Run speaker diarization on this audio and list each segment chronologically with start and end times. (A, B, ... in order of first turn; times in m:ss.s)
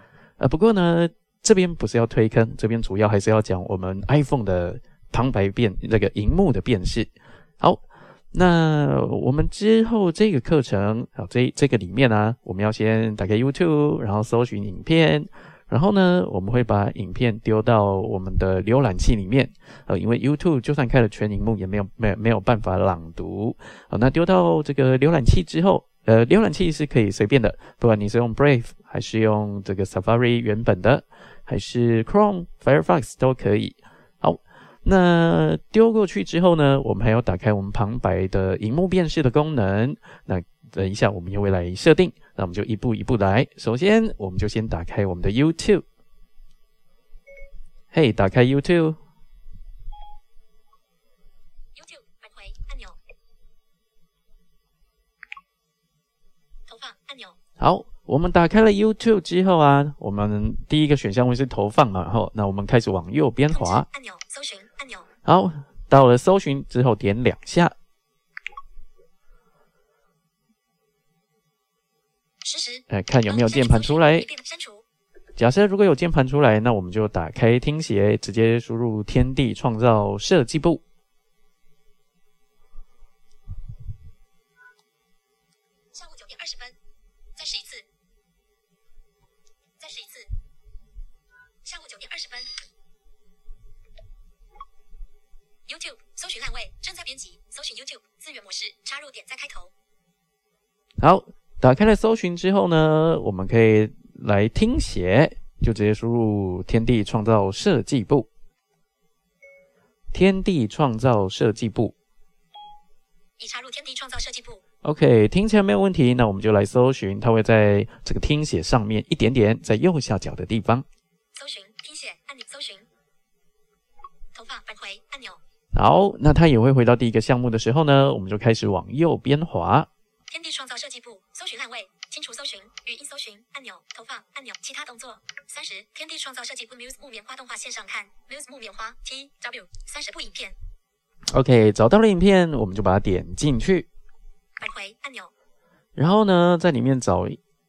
0:00.4-0:45.8 A
0:47.9-0:49.0 A
0:51.7-0:53.0 B
0:56.7-0:57.4 B
0:57.6-1:03.9 A
1:03.5-1:05.1 B
1:05.2-1:07.7 A
1:12.4-1:14.8 B
1:12.9-1:14.3 A
1:15.4-1:20.8 A
1:25.9-1:26.8 B
1:27.4-1:27.8 B
1:29.8-1:30.3 B
1:31.6-1:32.5 B
1:35.7-1:39.7 B
1:41.0-1:48.3 A
1:50.1-1:51.9 A
1:53.4-1:54.6 B
1:54.8-2:00.8 A
2:01.3-2:02.9 B
2:04.3-2:05.4 B
2:05.7-2:09.9 A
2:10.3-2:20.5 B
2:21.3-2:23.9 A
2:24.6-2:25.3 B
2:26.0-2:27.4 A